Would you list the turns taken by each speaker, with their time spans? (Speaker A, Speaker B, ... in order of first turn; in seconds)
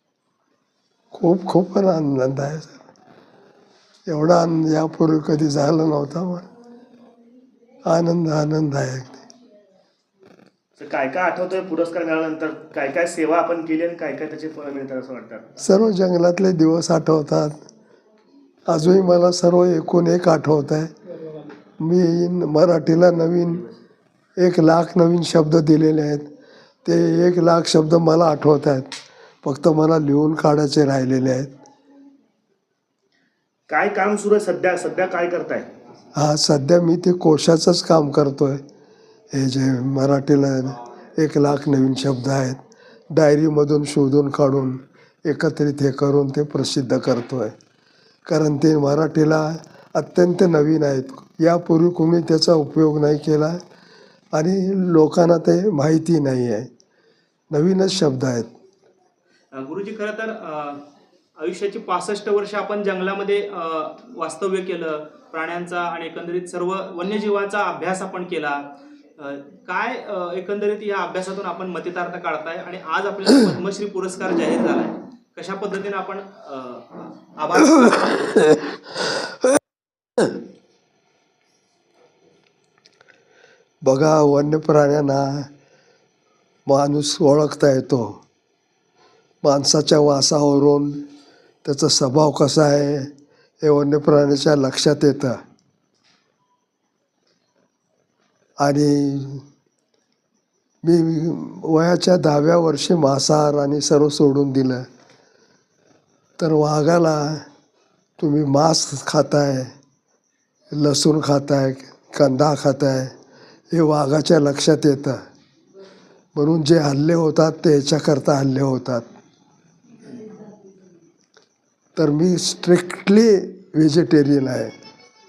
Speaker A: 1.1-2.8, 4.1-6.5, 7.8-9.2, 15.6-17.6, 18.7-20.9, 21.8-23.6, 24.4-26.3, 26.8-31.6, 36.1-38.6, 39.3-42.6, 43.1-47.5, 48.3-53.6, 54.3-56.7, 57.5-58.5, 83.8-85.5, 86.7-88.2, 89.4-91.0, 91.6-93.1, 93.6-95.4, 98.6-99.5, 100.8-104.8, 106.4-107.4, 108.2-109.7, 110.7-113.1, 113.7-115.2, 116.4-119.1, 122.0-124.7
Speaker B: 10.8-15.5, 23.5-23.8, 33.7-35.7
Speaker C: 59.5-60.8, 61.4-68.6, 69.2-78.6